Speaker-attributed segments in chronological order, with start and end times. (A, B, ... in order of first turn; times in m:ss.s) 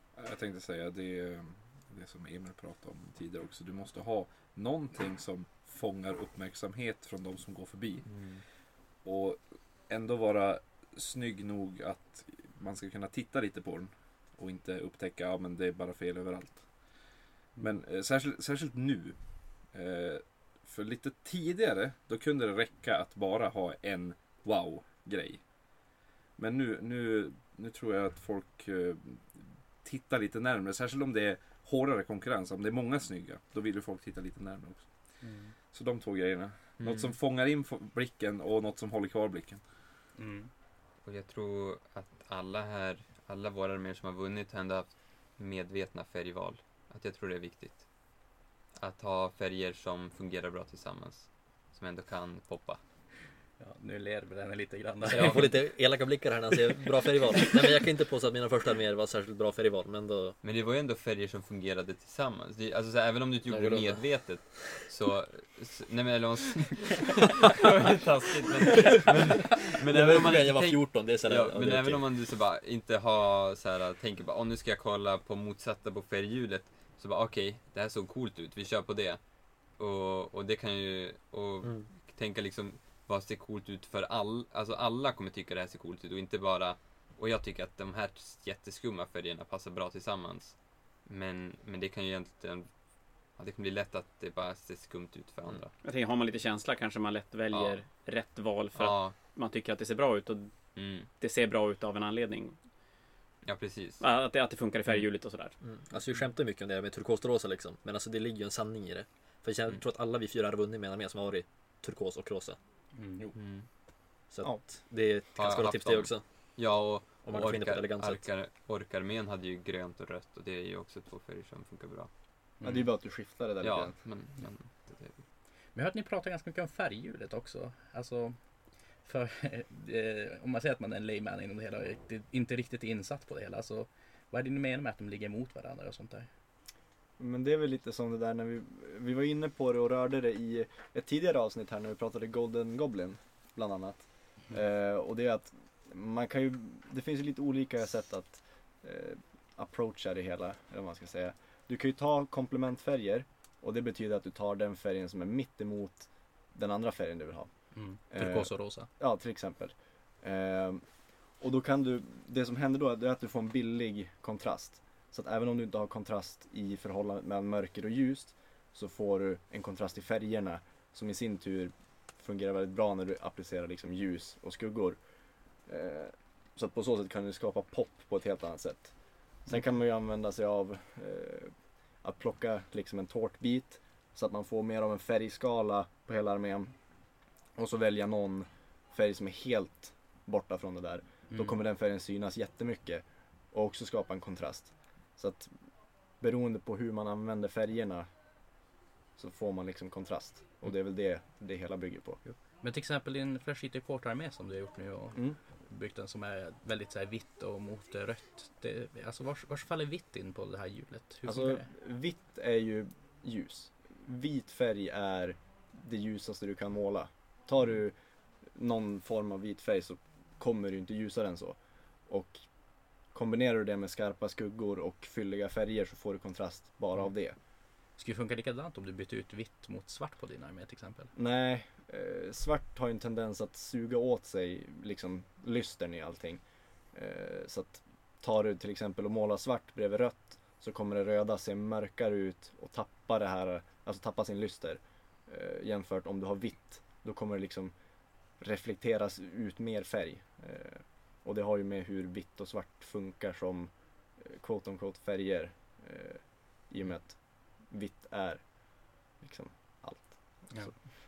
0:00.2-0:39.6 A
0:08.0-0:08.4 B
0:35.2-0:35.5 C
0:36.8-0:37.2 B
0:40.2-0:40.5 C
0:41.0-0:52.8 B
0:53.6-0:55.6 C
0:55.1-1:00.4 D
0:55.1-0:55.7 B
1:00.4-1:35.8 B
1:03.4-1:04.9 D
1:08.7-1:12.2 D
1:21.6-1:22.0 D
1:35.8-1:42.7 E
1:37.5-1:37.8 B
1:38.8-1:39.2 B
1:40.8-1:41.1 B
1:43.4-1:44.0 B
1:44.0-1:45.6 E
1:45.6-1:52.6 D
1:52.9-1:53.2 C
1:53.4-1:53.7 B
1:54.3-1:58.3 D
1:55.3-2:02.1 B
2:02.6-2:02.9 C
2:02.6-2:04.0 F
2:03.6-2:05.2 B
2:05.8-2:08.4 C
2:09.0-2:16.3 C
2:17.2-3:18.1 F
2:37.7-2:38.9 C
3:11.3-3:11.6 C
3:19.2-3:22.2 F
3:22.2-3:31.7 C
3:31.2-3:47.4 F
3:47.9-3:51.1 C
3:51.2-4:20.8 F